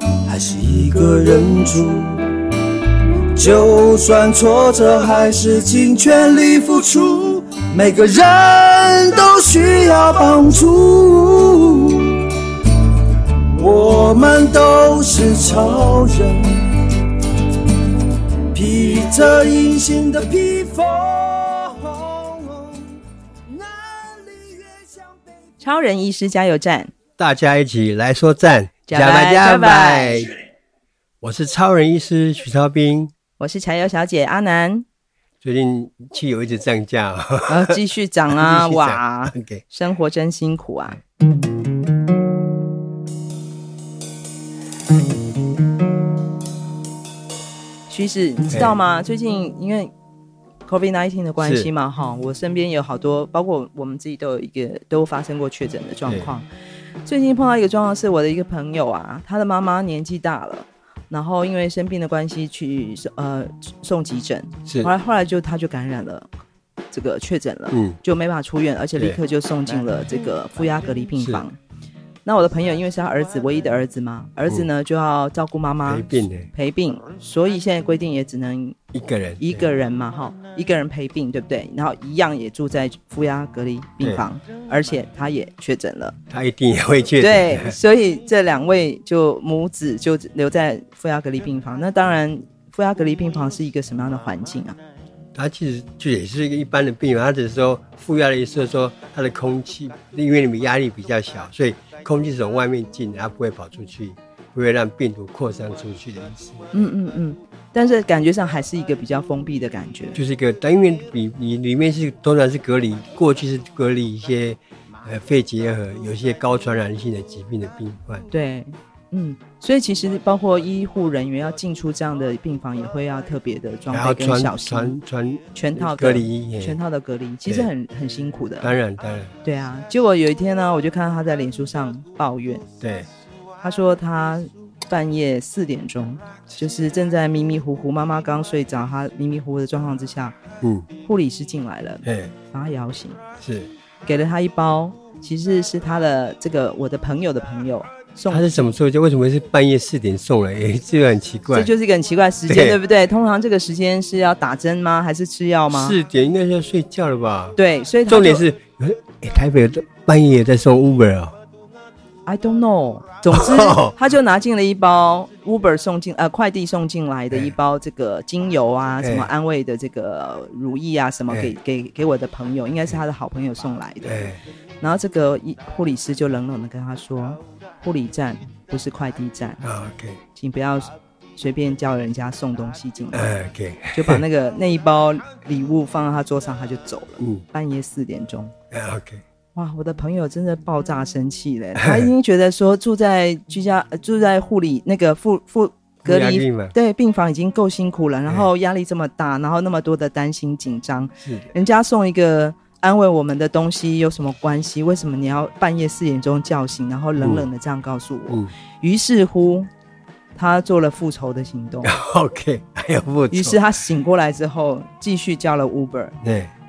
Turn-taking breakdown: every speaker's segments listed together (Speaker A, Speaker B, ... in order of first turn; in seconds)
Speaker A: 0.2-2.3, 3.3-12.4, 13.5-16.8, 18.5-22.9, 23.5-25.2
Speaker B: 25.6-26.9, 28.9-30.3, 33.4-34.8, 37.5-41.0, 47.9-49.9, 50.6-56.5, 57.0-66.3, 66.9-71.6, 72.2-78.8, 79.4-86.2, 87.2-94.8, 106.7-110.2, 118.3-125.0, 125.5-128.7, 129.4-132.6, 133.6-140.4, 141.0-143.2, 144.1-148.5, 151.5-156.0, 157.6-158.4, 162.3-179.6, 180.3-183.3, 183.9-188.5, 189.5-209.7, 210.3-211.9, 213.3-216.2
Speaker C: 27.2-30.3, 31.2-33.1, 35.4-37.8, 38.3-39.6, 48.5-48.8, 51.4-51.7, 64.7-64.9, 67.7-68.0, 75.8-76.5, 78.9-79.7, 84.0-84.2, 86.3-87.8, 95.3-106.7, 110.1-118.2, 123.9-126.8, 128.6-129.3, 132.8-133.1, 140.6-140.9, 142.0-142.3, 143.4-143.7, 148.3-151.7, 152.5-152.8, 155.7-161.3, 163.3-163.9, 169.0-169.3, 174.0-174.4, 179.6-180.2, 183.1-184.2, 188.7-189.2, 191.8-192.1, 196.0-196.7, 201.2-201.5, 207.2-207.4, 211.8-213.6, 216.2-216.5